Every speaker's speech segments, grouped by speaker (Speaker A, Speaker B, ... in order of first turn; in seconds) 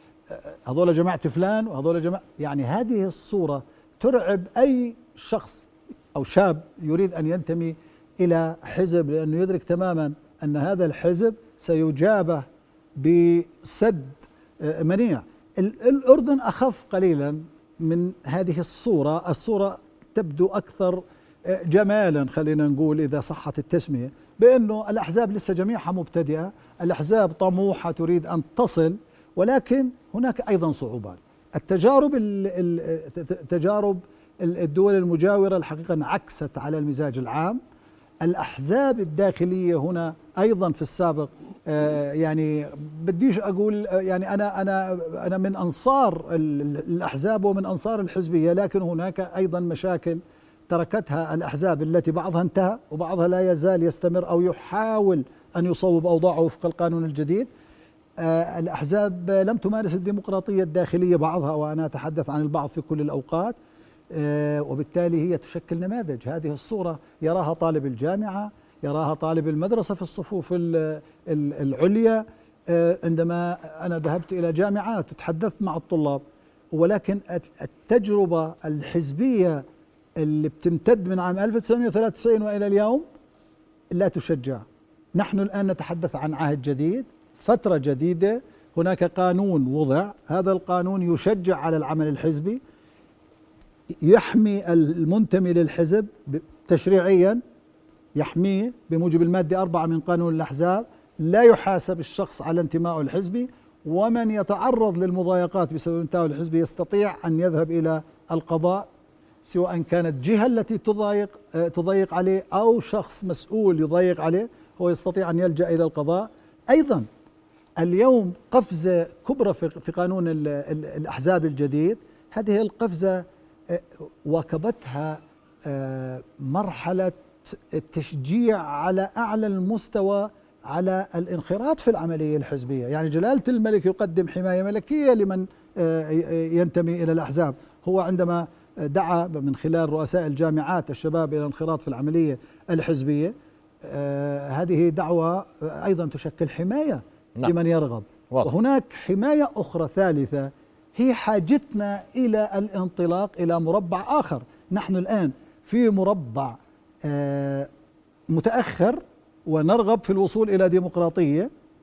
Speaker A: 0.3-12.5, 13.0-37.6, 38.2-57.5, 58.2-63.6, 64.1-79.6, 80.2-83.0, 83.9-84.6, 85.2-92.6, 94.0-97.4, 98.1-108.9, 109.4-117.1, 117.8-157.7, 158.3-161.5